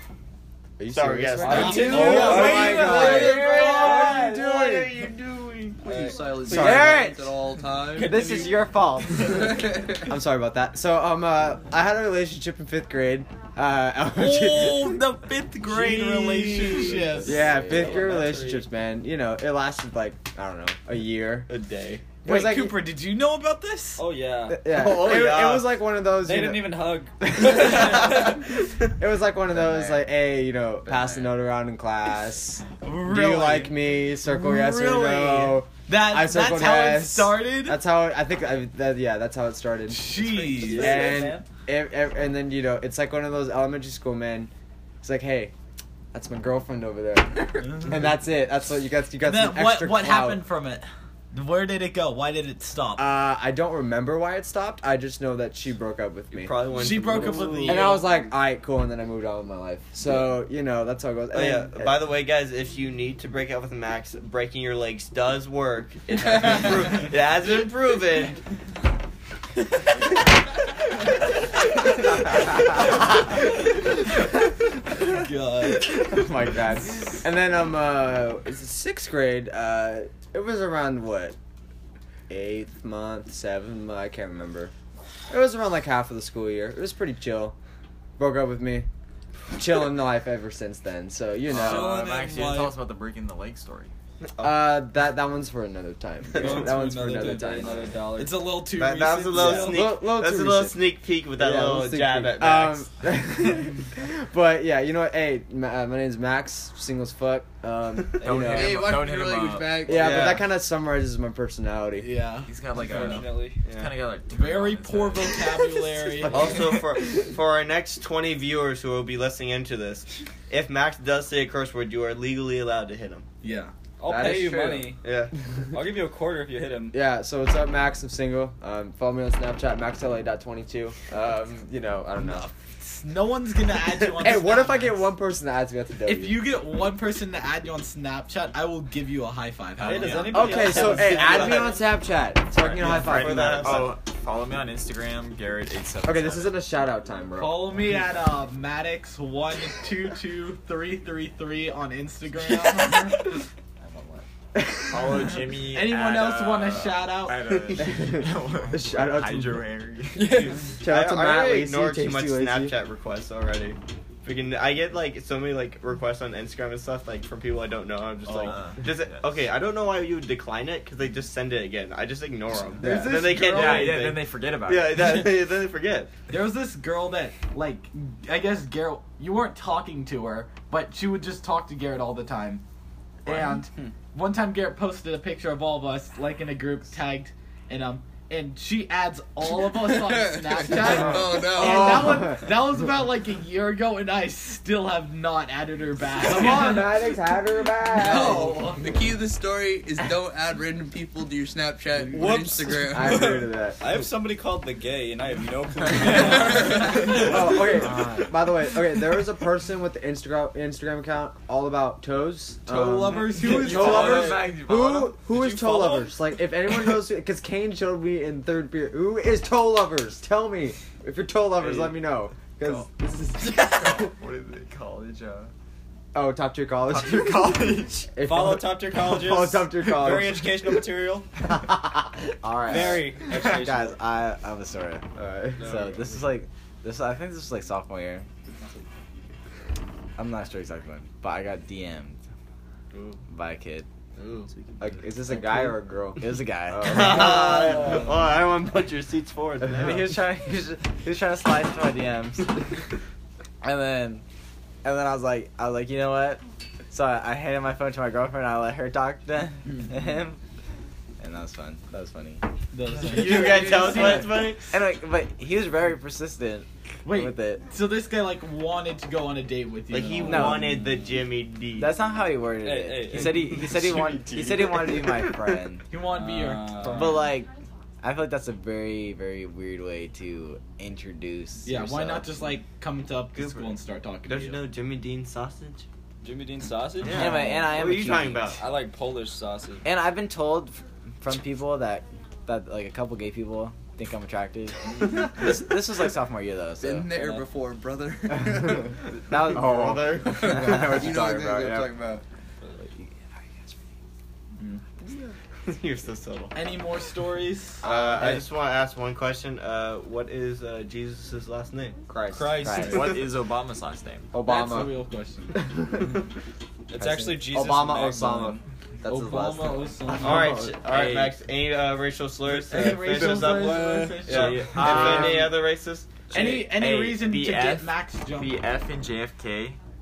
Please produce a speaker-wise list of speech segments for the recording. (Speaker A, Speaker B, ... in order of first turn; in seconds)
Speaker A: 0.8-5.0, 6.4-7.1, 8.0-15.1, 17.2-21.5, 22.2-22.9, 24.5-44.5, 45.0-45.5, 46.1-50.4, 53.0-56.6, 57.3-62.0, 75.7-81.4, 82.3-84.7, 85.3-87.5, 88.2-88.9, 89.5-92.0, 94.4-97.9, 99.3-100.8, 101.3-109.0, 109.8-112.1, 116.2-116.8, 124.0-125.0, 126.9-132.5, 134.2-136.4, 140.3-143.9, 146.0-147.7, 154.5-155.2, 157.8-159.9, 160.8-162.7, 172.9-173.4, 191.3-192.5, 196.2-198.8, 202.6-203.8, 206.5-224.1, 226.1-230.9, 231.4-233.0, 235.2-235.7, 244.8-248.0, 299.3-301.9, 307.8-308.4, 312.1-313.1, 314.3-315.0, 315.5-316.2, 317.4-320.7, 324.9-325.6
Speaker B: 0.9-6.2, 15.7-17.3, 21.5-22.1, 24.6-25.8, 27.5-27.8, 56.3-57.9, 61.3-68.4, 94.4-94.7, 98.6-102.9, 110.0-110.5, 113.6-114.0, 116.3-123.3, 125.0-125.3, 139.8-141.8, 142.8-144.0, 160.8-176.1, 235.2-236.2, 242.9-243.2, 244.2-244.5, 246.8-250.2, 263.0-264.7, 269.9-272.0, 284.2-285.9, 287.0-288.6, 299.3-301.1, 305.6-306.6, 307.8-312.0, 312.9-313.1, 320.1-326.6
Speaker C: 1.4-4.0, 14.1-17.6, 22.2-24.1, 32.8-37.8, 39.9-41.3, 49.2-53.1, 56.7-58.0, 75.0-75.9, 91.6-92.8, 96.4-99.9, 112.0-113.0, 114.3-116.6, 123.4-123.7, 132.2-135.1, 136.1-140.6, 147.3-153.2, 155.4-157.6, 172.8-173.9, 176.3-182.6, 183.2-197.0, 198.1-198.8, 212.7-214.5, 262.7-264.5, 267.0-270.7, 275.9-277.3, 281.6-284.6, 306.5-307.9, 314.4-315.6, 319.0-320.6, 322.5-324.8, 326.3-328.6
Speaker D: 1.4-4.2, 5.8-6.7, 7.9-8.7, 16.6-18.7, 24.0-24.6, 26.2-28.4, 40.1-41.4, 96.4-98.5, 99.4-99.8, 112.8-113.6, 124.0-125.0, 125.7-127.0, 139.8-141.8, 160.2-160.7, 202.1-207.9, 215.3-216.2, 228.2-231.3, 232.6-234.0, 272.6-273.7, 276.1-277.2, 286.2-289.9, 312.3-313.1, 316.9-318.6, 320.9-321.4, 322.7-325.1
Speaker E: 1.9-3.8, 6.6-7.2, 29.5-30.2, 30.8-31.3, 232.4-235.0, 235.6-238.2, 240.2-242.2, 243.3-243.9, 246.2-247.4, 249.7-252.6, 253.6-254.2, 254.8-260.4, 261.2-262.4, 263.8-267.7, 270.2-270.9, 271.8-275.8, 276.9-277.5, 278.0-282.4, 287.1-288.5, 289.9-297.4, 317.0-317.4
Speaker F: 5.8-8.6, 9.2-10.0, 108.3-110.3, 189.8-192.1, 197.9-203.4, 296.8-298.9, 300.4-302.2
Speaker G: 91.4-93.9, 108.2-110.3, 112.4-115.9, 142.5-146.7, 153.8-154.2, 154.8-160.4, 168.2-169.2, 173.3-175.2, 183.3-183.6, 213.3-215.2, 222.5-225.5, 226.8-228.1, 273.4-275.2, 312.7-314.4, 323.2-325.4, 326.3-329.8